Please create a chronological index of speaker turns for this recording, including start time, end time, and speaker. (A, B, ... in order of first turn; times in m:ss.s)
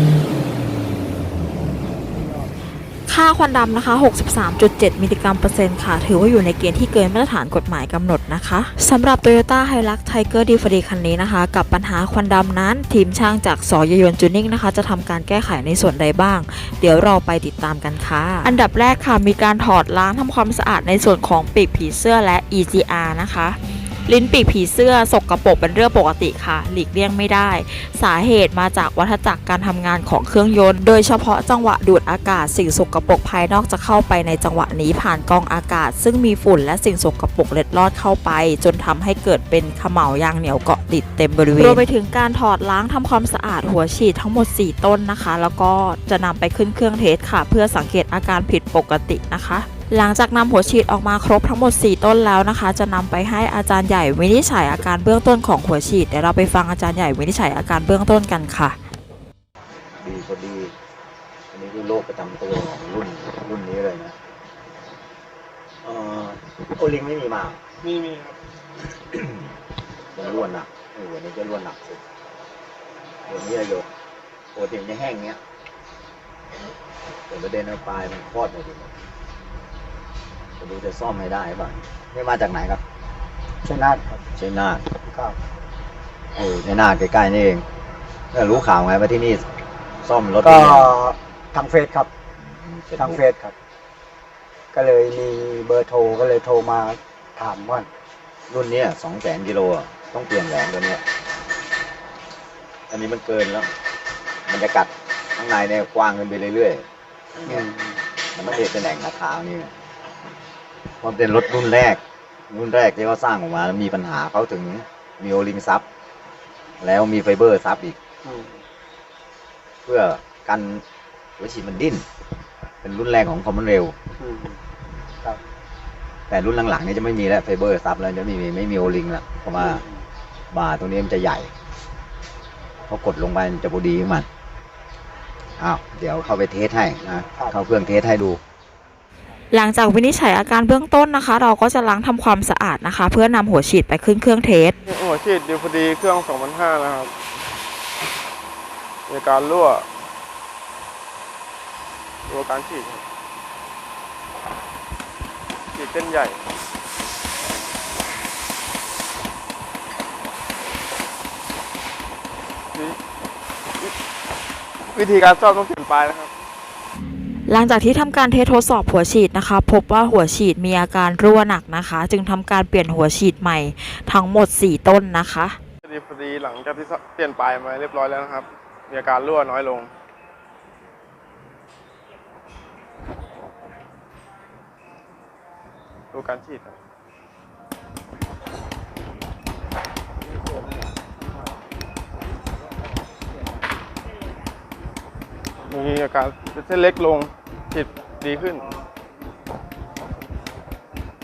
0:03.1-0:58.8 A
1:00.0-1:00.7 B
1:01.5-1:04.2 B
1:05.8-1:07.6 B
1:09.1-1:09.4 B
1:10.1-1:12.0 B
1:13.3-1:13.8 B
1:14.6-1:15.4 B
1:17.3-1:19.0 B
1:20.6-1:22.8 B
1:23.6-1:24.2 C
1:24.3-1:24.9 B
1:25.0-1:25.4 C
1:26.4-1:27.7 B
1:28.3-1:29.5 B
1:30.0-1:31.0 B
1:30.4-1:32.1 C
1:32.5-1:33.2 B
1:33.0-1:33.5 C
1:34.7-1:37.9 C
1:38.5-1:41.0 B
1:42.9-1:43.7 B
1:44.5-1:46.8 B
1:47.4-1:47.7 B
1:47.5-1:48.0 C
1:48.2-1:49.7 B
1:51.0-1:55.8 B
1:56.8-1:58.0 B
1:58.2-1:58.6 C
1:59.9-2:00.8 B
2:01.4-2:02.1 B
2:02.8-2:04.0 B
2:04.2-2:04.6 C
2:06.3-2:09.8 B
2:09.6-2:10.0 C
2:10.5-2:11.5 B
2:12.9-2:14.3 B
2:15.6-2:18.4 B
2:19.5-2:24.8 A
2:24.9-2:27.1 D
2:29.1-2:29.9 D
2:32.3-2:33.0 D
2:35.8-2:36.4 D
2:44.9-2:46.3 D
2:47.5-2:55.6 A
2:55.8-2:59.9 D
3:06.1-3:06.8 D
3:15.7-3:18.7 D